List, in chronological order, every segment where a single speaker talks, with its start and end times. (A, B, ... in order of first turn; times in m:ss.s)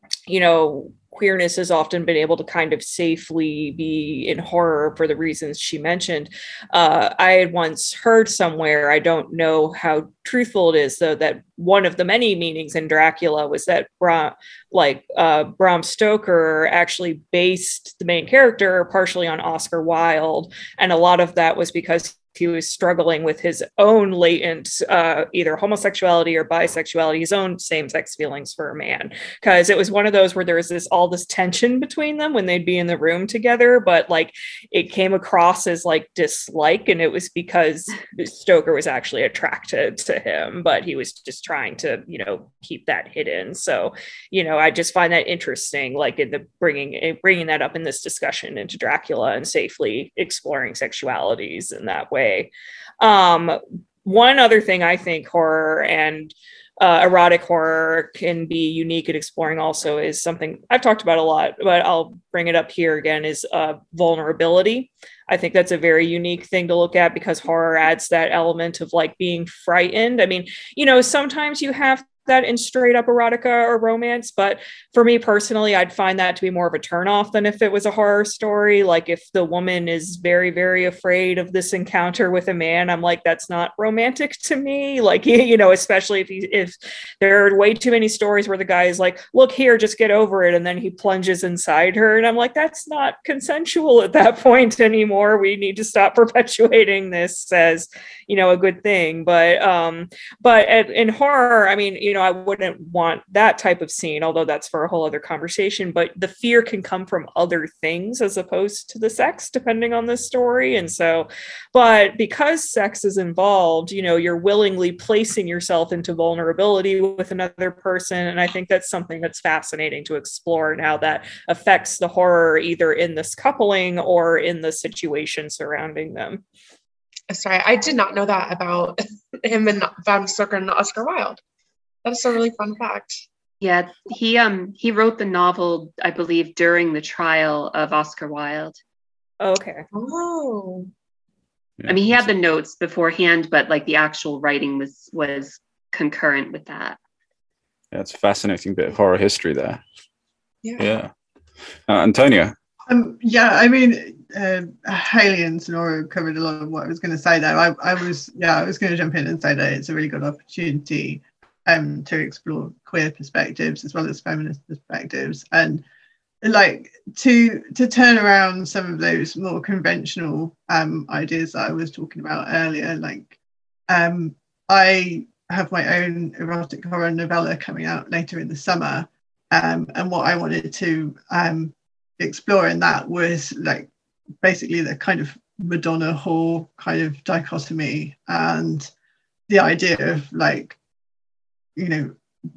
0:00.3-0:52.5 A
0:53.0-2:06.4 A
2:07.3-2:11.4 B
2:12.0-2:13.1 B
2:13.6-2:18.8 C
2:19.4-2:19.9 A
2:19.9-2:20.9 B
2:21.8-2:22.3 D
2:21.9-2:27.0 C
2:27.9-2:29.8 D
2:30.6-2:30.9 B
2:30.8-2:31.1 D
2:31.9-2:32.5 D
2:32.9-2:45.8 E
2:46.4-2:53.3 E
2:53.9-3:03.9 E
3:04.4-3:08.9 E
3:09.5-3:10.8 E
3:11.8-3:12.1 E